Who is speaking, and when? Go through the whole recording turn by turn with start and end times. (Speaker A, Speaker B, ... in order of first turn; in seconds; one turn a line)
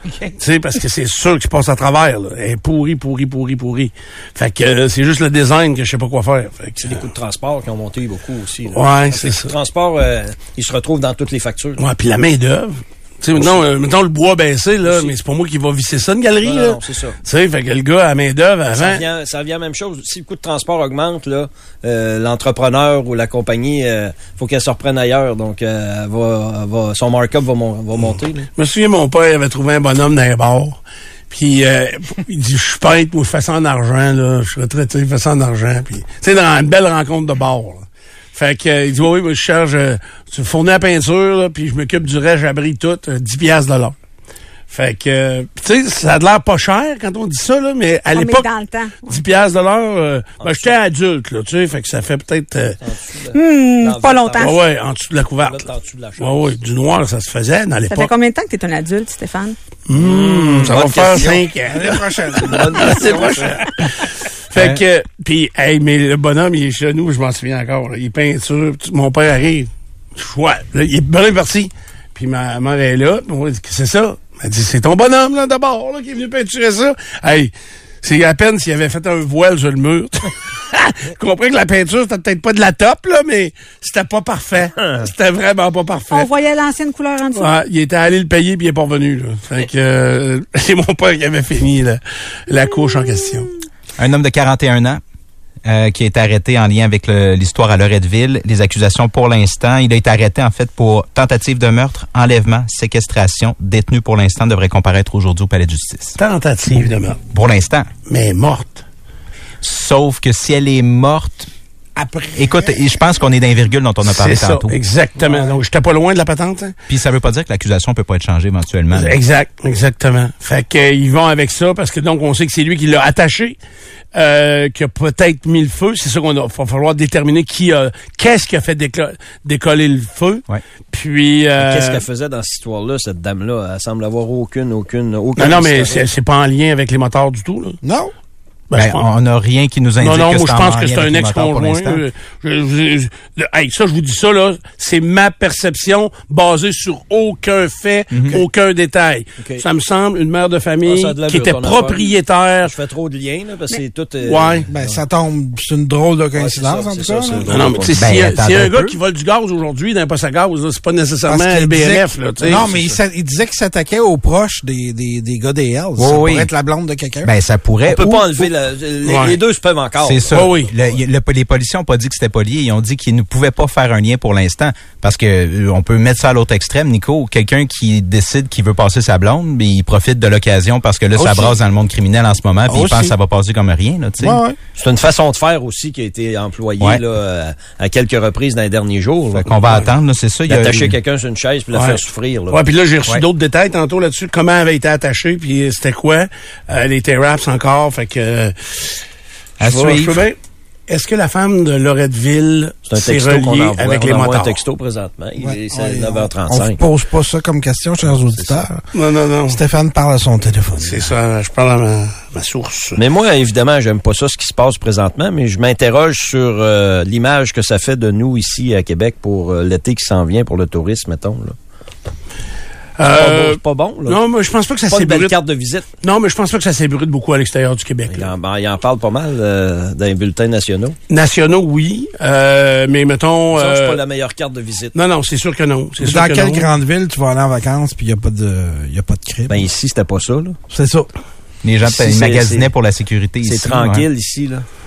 Speaker A: 0.4-7.0
Speaker B: 6.8-11.8
Speaker A: 8.7-9.5
Speaker A: 11.8-19.0
Speaker B: 13.3-13.7
Speaker B: 14.8-15.1
Speaker B: 16.4-17.2
Speaker B: 18.7-28.5
Speaker A: 28.6-30.8
Speaker A: 31.3-44.0
Speaker A: 44.7-48.5
Speaker C: 48.1-49.2
Speaker A: 49.1-52.8
Speaker B: 50.4-50.7
Speaker B: 52.8-54.6
Speaker C: 53.3-54.6
Speaker A: 54.4-58.1
Speaker B: 55.4-56.5
Speaker C: 57.9-59.6
Speaker A: 59.9-77.5
Speaker B: 59.9-61.5
Speaker D: 61.7-63.5
Speaker B: 62.4-63.6
Speaker E: 64.5-64.8
Speaker A: 78.0-86.3
Speaker C: 86.1-87.5
Speaker A: 87.3-93.5
Speaker E: 94.0-95.0
Speaker E: 95.6-106.2
Speaker A: 106.2-107.2
Speaker E: 107.3-107.9
Speaker A: 108.1-108.8
Speaker E: 109.6-111.5
Speaker D: 112.0-112.9
Speaker E: 112.3-114.7
Speaker A: 114.0-116.7
Speaker D: 115.2-115.6
Speaker E: 116.9-119.2
Speaker A: 118.9-123.6
Speaker A: 124.1-132.0
Speaker B: 131.6-136.0
Speaker A: 135.4-137.8
Speaker D: 137.8-138.1
Speaker A: 138.7-139.0
Speaker E: 138.7-142.0
Speaker A: 140.0-152.7
Speaker E: 148.1-148.4
Speaker B: 149.4-149.6
Speaker B: 150.8-155.0
Speaker A: 154.2-154.7
Speaker D: 154.7-157.7
Speaker B: 156.3-158.1
Speaker A: 157.5-162.7
Speaker E: 157.9-158.9
Speaker D: 161.2-167.3
Speaker B: 162.4-162.9
Speaker E: 166.0-166.5
Speaker E: 167.2-168.4
Speaker B: 167.8-170.5
Speaker A: 169.0-169.4
Speaker E: 170.0-184.4
Speaker A: 170.3-170.7
Speaker D: 181.2-181.6
Speaker D: 182.7-183.1
Speaker D: 184.2-184.6
Speaker B: 184.8-189.8
Speaker E: 189.4-191.0
Speaker A: 189.6-189.9
Speaker B: 190.4-192.6
Speaker A: 191.7-192.0
Speaker A: 192.5-199.0
Speaker E: 199.6-200.2
Speaker A: 199.6-200.4
Speaker A: 200.9-204.6
Speaker B: 202.9-206.8
Speaker D: 205.4-208.8
Speaker A: 208.9-209.6
Speaker D: 209.5-211.1
Speaker A: 210.8-213.0
Speaker B: 212.9-221.6
Speaker A: 223.0-225.3
Speaker B: 223.1-224.2
Speaker B: 224.9-225.9
Speaker A: 226.0-228.3
Speaker B: 228.1-230.9
Speaker A: 231.1-234.0
Speaker B: 233.5-234.9
Speaker A: 234.9-236.7
Speaker D: 236.0-239.7
Speaker B: 239.5-240.6
Speaker D: 240.7-241.1
Speaker E: 241.6-244.1
Speaker B: 241.8-242.7
Speaker B: 243.4-244.6